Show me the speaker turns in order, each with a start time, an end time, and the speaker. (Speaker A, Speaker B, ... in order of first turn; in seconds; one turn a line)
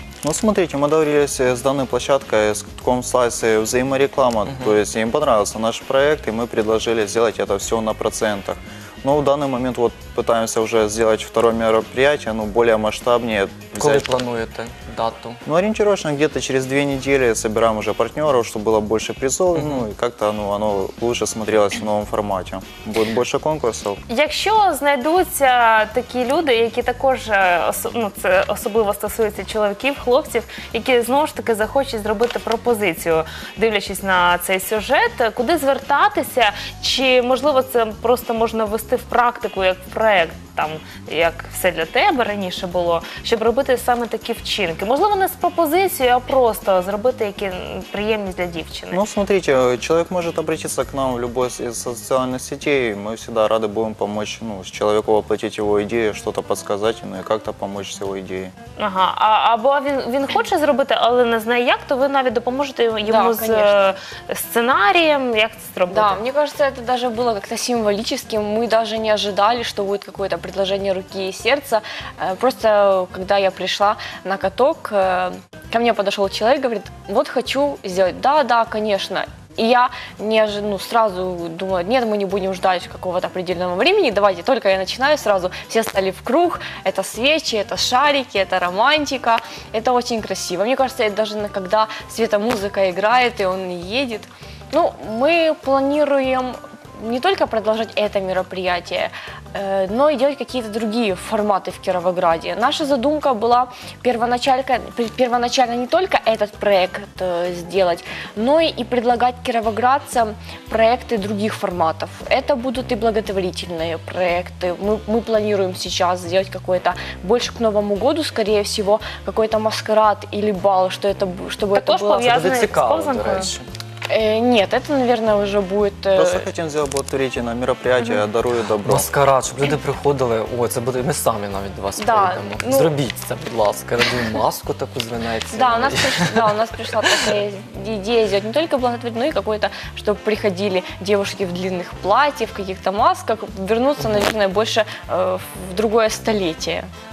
Speaker A: 0.2-14.1
Speaker B: 4.5-4.8
Speaker B: 13.8-15.4
Speaker A: 15.5-24.0
Speaker B: 19.6-19.8
Speaker C: 24.1-49.0
Speaker A: 48.9-58.5
Speaker C: 58.8-66.2
Speaker D: 63.1-63.9
Speaker D: 65.9-122.4
Speaker C: 121.7-123.5
Speaker B: 122.3-123.7
Speaker D: 124.1-126.5
Speaker A: 126.2-129.1
Speaker B: 128.8-136.4
Speaker D: 132.0-133.0
Speaker D: 135.5-146.9
Speaker B: 144.0-144.3